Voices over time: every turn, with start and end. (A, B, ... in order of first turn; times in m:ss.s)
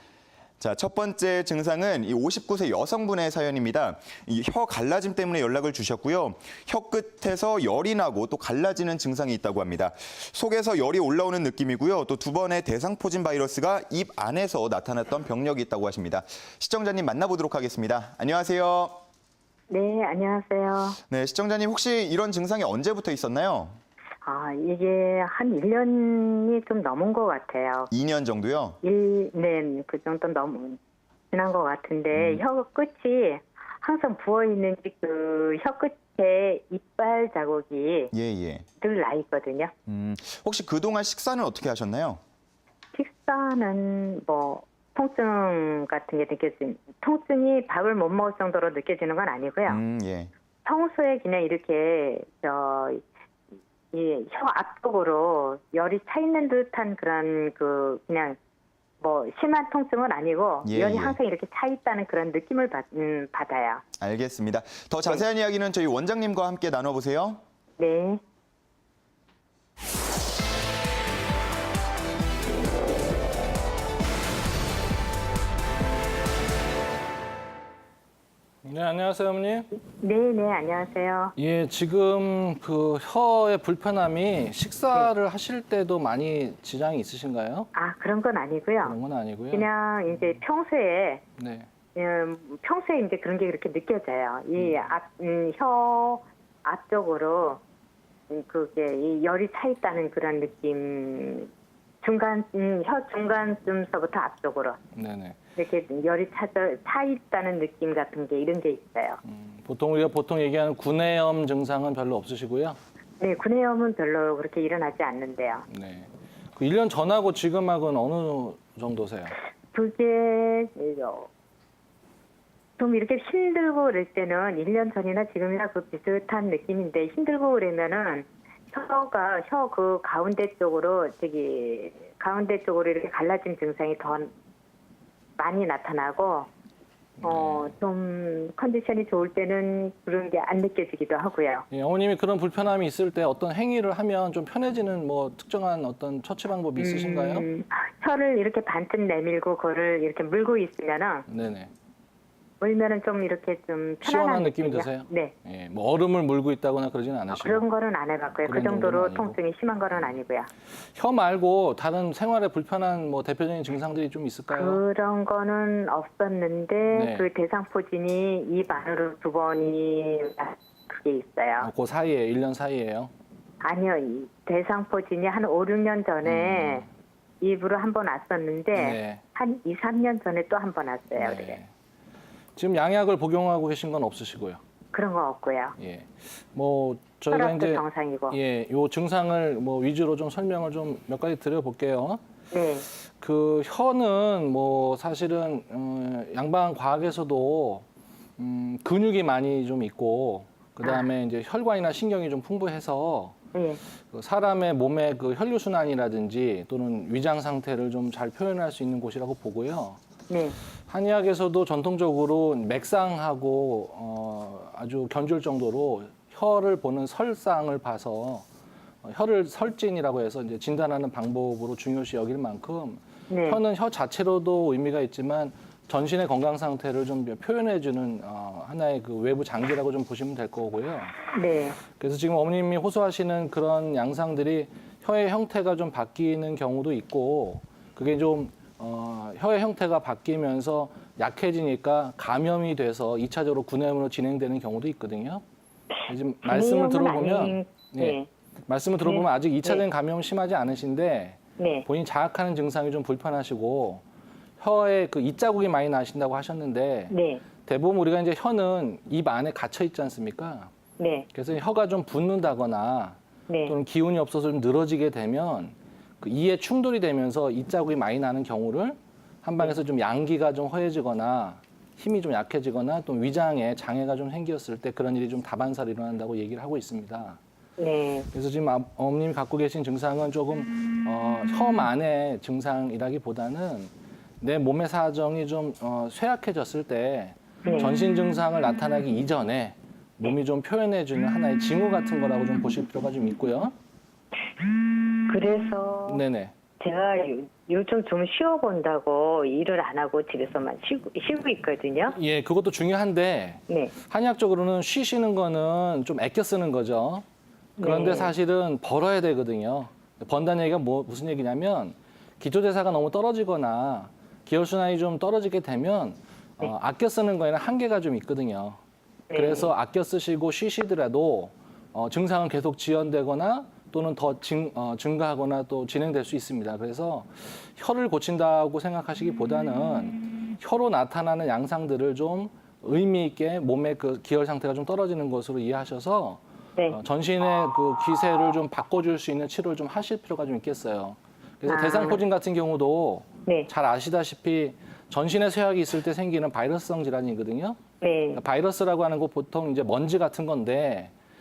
0:00.6-0:19.0 A
0:19.7-0:21.0 B
0:21.1-0:23.8 A
0:24.2-0:27.9 B
0:27.9-0:28.8 A
0:28.8-0:30.8 B
0:31.3-0:38.1 B
0:32.1-0:32.4 A
0:38.1-0:38.6 A
0:38.8-0:39.7 B
0:39.9-0:42.2 A
0:42.9-0:49.8 B
0:49.7-0:50.3 A
0:50.6-0:53.0 B
0:53.9-0:58.4 B
0:59.0-1:03.8 B
1:00.6-1:01.2 A
1:04.0-1:07.4 A
1:07.8-1:08.2 B
1:18.6-1:19.8 C
1:19.9-1:21.3 B
1:21.4-1:27.7 C
1:27.7-1:29.0 B
1:28.8-1:30.4 C
1:29.5-1:31.2 B
1:31.4-1:31.7 C
1:31.9-1:37.6 B
1:34.6-1:34.9 C
1:38.3-1:41.5 B
1:42.0-1:44.8 B
1:44.9-1:45.4 C
1:45.6-1:49.2 B
1:49.2-1:52.8 C
1:53.2-1:55.6 B
1:55.7-1:59.4 C
1:59.7-2:01.3 B
2:02.8-2:14.3 B
2:15.4-2:16.5 B
2:17.2-2:17.7 C
2:17.2-2:21.6 B
2:21.7-2:27.5 C
2:26.8-2:31.2 B
2:31.3-2:31.7 C
2:32.6-2:35.3 B
2:34.0-2:37.7 C
2:37.3-2:40.5 B
2:38.4-2:39.4 C
2:40.8-2:44.8 C
2:44.5-2:51.7 B
2:46.9-2:47.3 C
2:51.6-2:53.1 C
2:53.6-2:56.8 B
2:56.2-2:56.9 C
2:57.4-3:01.6 B
2:58.7-2:59.2 C
3:01.1-3:01.7 C
3:02.6-3:04.6 C
3:04.9-3:05.7 B
3:05.8-3:12.2 C
3:07.3-3:08.4 B
3:12.5-3:12.8 B
3:13.0-3:17.8 C
3:18.4-3:23.4 C
3:20.8-3:21.1 B
3:23.5-3:23.8 B
3:23.9-3:30.0 C
3:30.3-3:30.6 B
3:30.9-3:38.5 C
3:39.0-3:51.1 C
3:43.3-3:43.6 B
3:51.3-3:51.8 B
3:51.8-4:05.4 C
4:06.0-4:14.0 C
4:06.4-4:08.3 B
4:09.0-4:09.8 B
4:11.6-4:11.8 B
4:14.6-4:20.7 C
4:17.1-4:17.4 B
4:21.0-4:21.2 B
4:21.3-4:37.4 C
4:23.5-4:23.7 B
4:37.8-4:38.3 B
4:38.3-4:53.7 C
4:47.6-4:48.0 B
4:55.3-4:56.2 B
4:56.0-4:56.5 C
4:56.8-5:02.2 B
5:02.0-5:07.2 C
5:03.7-5:03.9 B
5:07.8-5:08.3 B
5:07.8-5:18.8 C
5:19.3-5:19.7 B
5:19.3-5:47.8 C
5:41.6-5:42.2 B
5:48.0-5:48.4 B
5:48.3-5:51.1 C